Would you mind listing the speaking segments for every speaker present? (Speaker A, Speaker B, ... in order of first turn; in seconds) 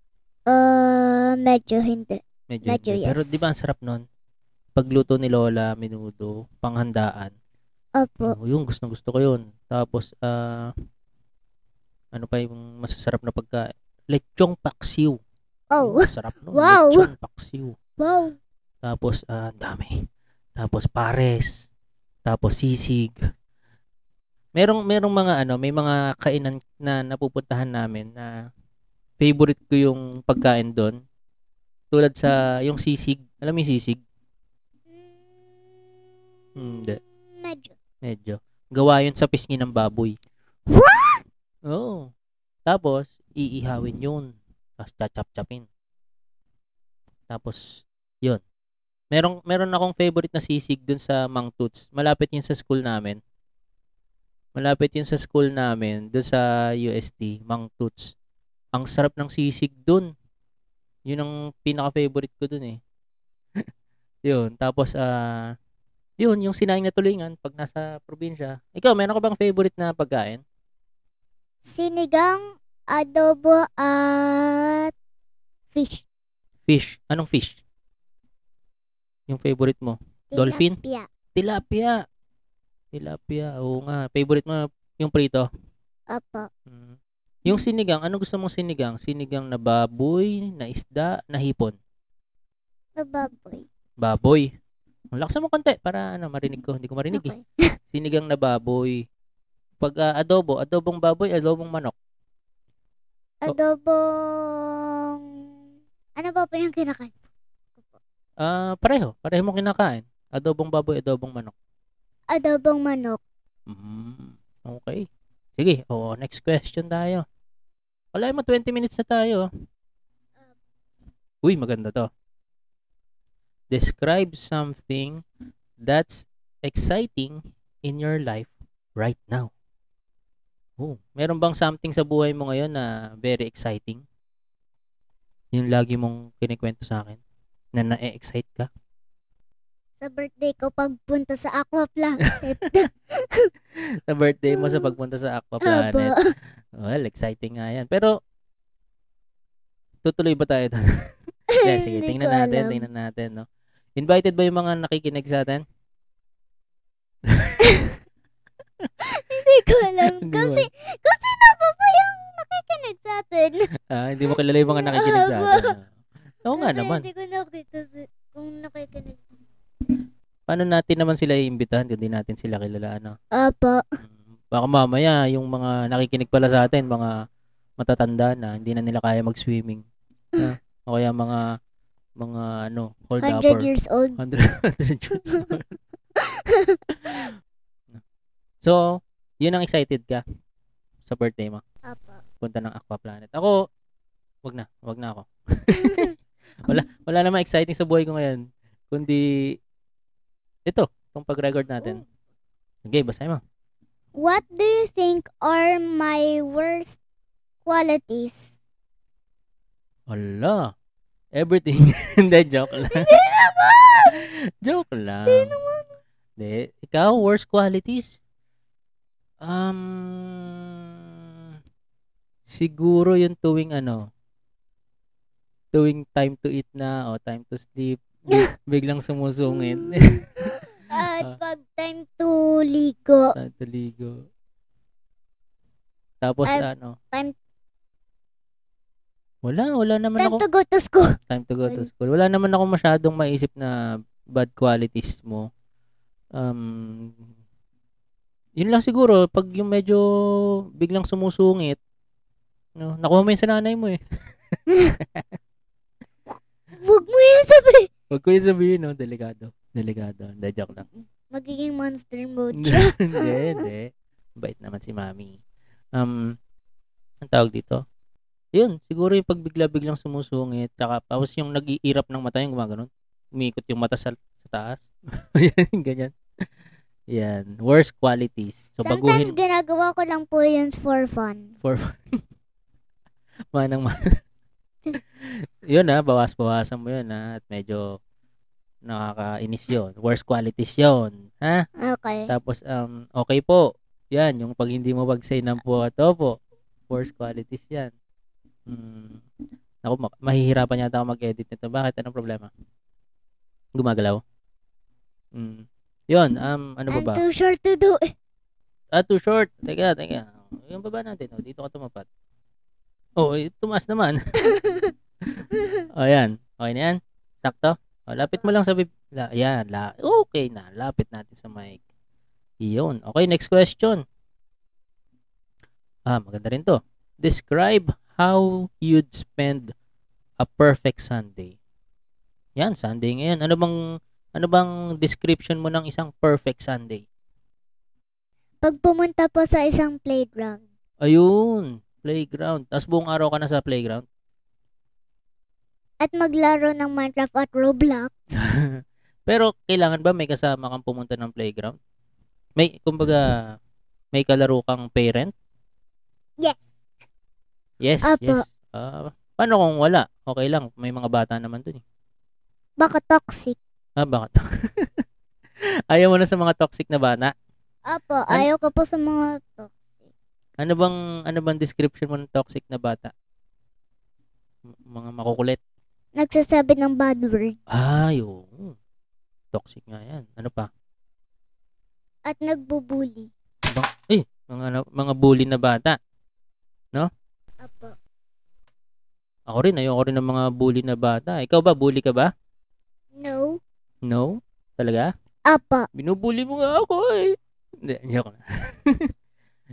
Speaker A: 0.5-3.4, 8.0-8.3, 15.7-17.1, 18.0-18.4, 34.9-36.1, 36.7-37.8, 40.7-41.2, 71.6-74.9, 75.7-76.0, 80.3-81.1, 86.1-86.5, 93.0-93.7, 97.1-97.6, 103.4-105.2, 106.2-107.1, 112.3-113.2, 140.0-143.5, 144.5-144.9, 145.6-146.2, 151.5-152.8, 157.6-157.9, 159.1-163.7, 164.7-165.7, 166.6-169.2, 173.3-173.8, 183.2-184.2, 186.2-186.8, 191.8-192.2, 195.8-196.1, 204.1-207.0, 207.7-208.6, 212.9-214.2, 215.3-215.9, 229.5-233.3, 236.5-237.3, 240.2-241.1, 256.8-257.9, 261.3-263.6, 278.8-281.5, 291.8-292.3, 306.9-308.1, 314.4-314.9, 315.5-315.8, 338.6-340.6, 346.0-348.3, 356.4-356.7, 358.0-358.4, 362.8-363.6, 367.9-369.8, 376.1-378.0, 382.3-383.3, 387.6-387.9, 393.1-393.6, 395.5-395.9
Speaker B: 2.5-4.0, 4.8-7.3, 8.2-10.7, 12.1-15.2, 15.8-17.8, 18.8-19.9, 20.6-21.7, 22.2-23.1, 24.6-28.3, 29.2-31.0, 31.9-34.0, 36.5-37.0, 38.0-40.1, 41.7-42.1, 42.7-45.7, 47.3-47.6, 49.1-53.2, 54.5-58.1, 58.7-60.1, 61.1-62.8, 64.2-65.4, 66.2-70.4, 76.7-77.6, 79.3-80.8, 81.3-82.0, 82.9-85.5, 86.7-91.7, 94.0-94.5, 95.1-97.3, 97.9-99.0, 99.8-101.9, 108.4-111.5, 113.7-117.2, 118.1-119.5, 121.4-122.1, 123.7-125.2, 125.8-129.5, 130.8-134.0, 135.5-137.2, 137.7-138.7, 144.1-146.2, 146.8-148.1, 150.0-150.8, 151.6-153.4, 154.0-155.6, 157.3-157.6, 160.0-160.7, 163.9-165.9, 166.4-167.1, 170.5-173.1, 174.5-177.1, 177.8-179.8, 180.4-181.4, 182.2-185.7, 189.4-190.2, 191.1-191.6, 192.4-193.5, 194.4-196.1, 196.6-199.5, 200.7-202.0, 202.8-203.4, 210.1-210.7, 211.3-213.1, 214.1-215.6, 216.4-218.2, 219.4-220.7, 222.5-224.1, 225.7-230.5, 233.3-234.2, 236.2-237.0, 239.4-240.4, 241.3-243.7, 244.3-245.5, 246.3-247.1, 248.6-250.0, 250.8-251.8, 252.8-254.0, 258.1-260.9, 262.6-265.4, 265.9-266.2, 267.2-267.8, 268.6-276.1, 277.1-279.3, 281.6-281.9, 283.5-284.0, 285.7-288.0, 288.8-291.6, 292.3-296.4, 296.9-297.9, 298.7-299.2, 299.8-302.5, 303.8-304.2, 305.3-307.2, 308.9-312.1, 313.2-314.2, 315.9-321.8, 322.6-324.0, 326.1-329.7, 330.4-331.5, 332.6-333.7, 334.4-337.0, 341.0-344.0, 348.4-348.6, 349.3-351.8, 352.6-353.3, 354.1-355.3, 357.8-361.8, 364.0-364.9, 365.9-367.3, 370.6-373.1, 374.9-375.6, 377.7-378.7, 379.5-380.7, 383.7-386.0, 389.5-392.3, 394.1-395.1, 395.9-399.0